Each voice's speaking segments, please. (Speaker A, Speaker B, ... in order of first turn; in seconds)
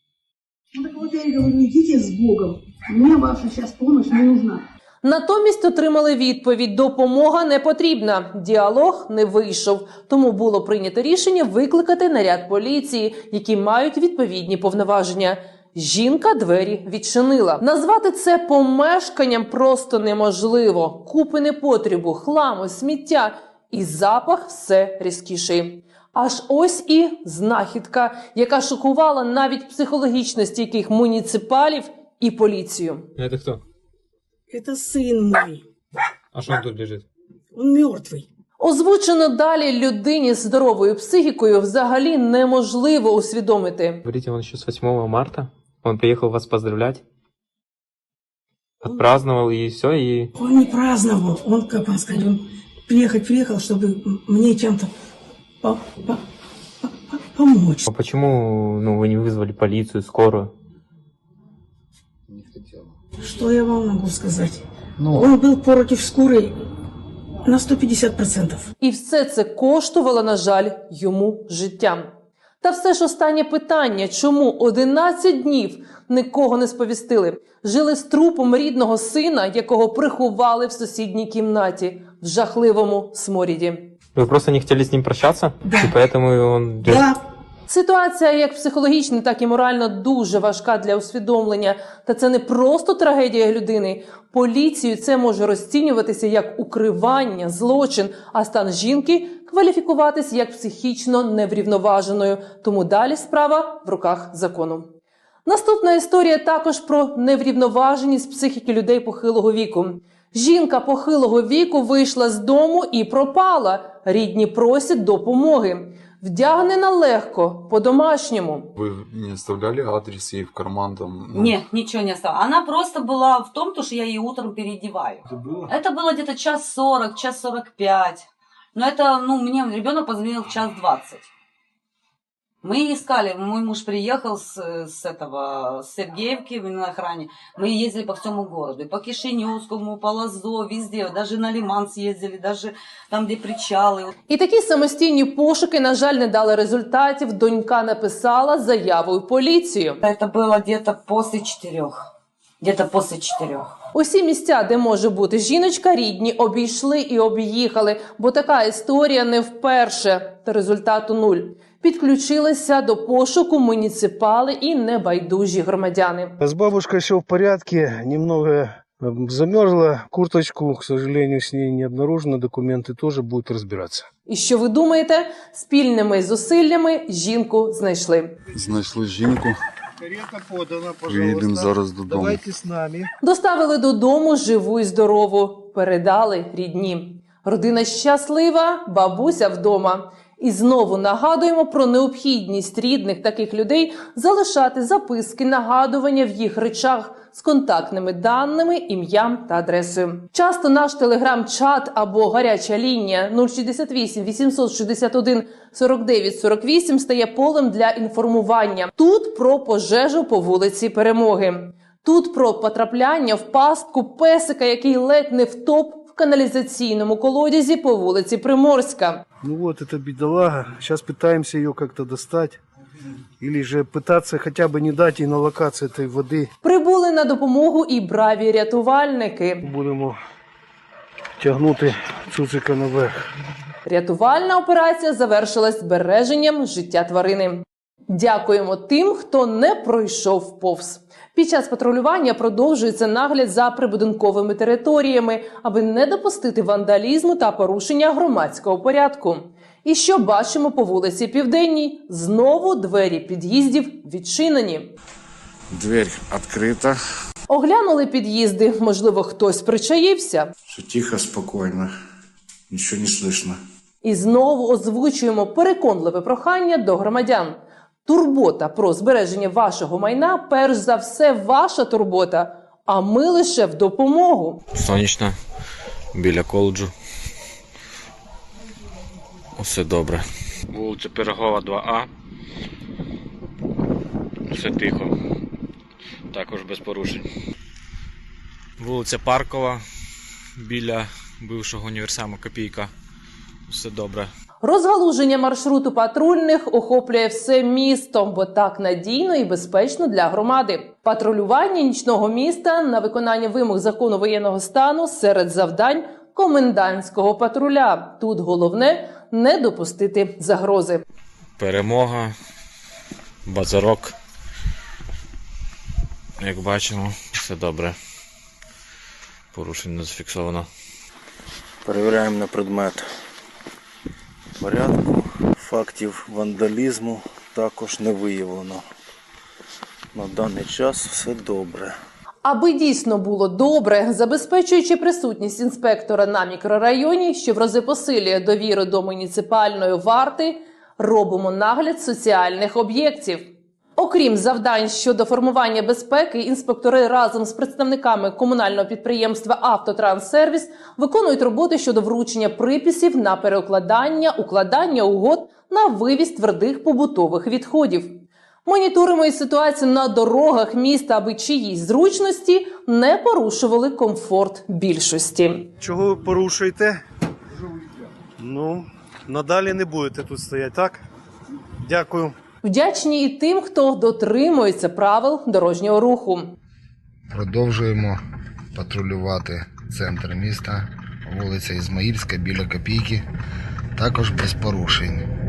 Speaker A: 0.8-4.6, 34.5-35.6, 37.5-38.2, 50.4-54.9, 55.6-56.2, 56.8-57.9, 63.2-66.5, 67.5-68.7, 85.6-86.0, 86.8-87.2
Speaker B: 5.0-33.1, 38.6-44.0, 68.8-72.1, 72.6-83.9, 87.7-104.9, 105.5-118.7, 144.3-150.0, 153.9-166.4, 174.3-178.3, 183.2-219.2, 226.6-229.6, 233.9-254.9, 257.5-260.5, 264.0-274.6, 294.6-311.0, 332.4-365.7, 372.6-376.5
Speaker C: 33.2-33.6, 36.3-37.0, 44.0-47.0, 48.8-50.3, 57.9-60.5, 84.1-87.0
Speaker D: 118.8-121.6, 178.6-179.6, 181.0-182.4
Speaker E: 121.3-131.3, 132.6-144.1, 150.0-152.0, 152.6-153.8
Speaker F: 166.4-174.1, 180.0-183.1, 219.4-222.6, 223.4-226.5, 229.6-230.2, 231.4-233.1, 365.8-367.0, 368.4-371.0, 371.9-372.3
Speaker G: 255.7-256.9, 260.7-261.9, 262.7-263.6, 377.3-378.2, 378.8-383.2, 384.0-385.2
Speaker H: 274.8-275.4, 276.1-276.9, 279.6-282.1, 284.5-285.1, 286.3-287.2, 288.8-289.8, 290.6-292.9, 293.7-294.3, 311.6-312.3, 313.5-314.1, 316.4-318.0, 319.5-320.7
Speaker I: 321.9-323.1, 324.6-328.8, 330.1-332.0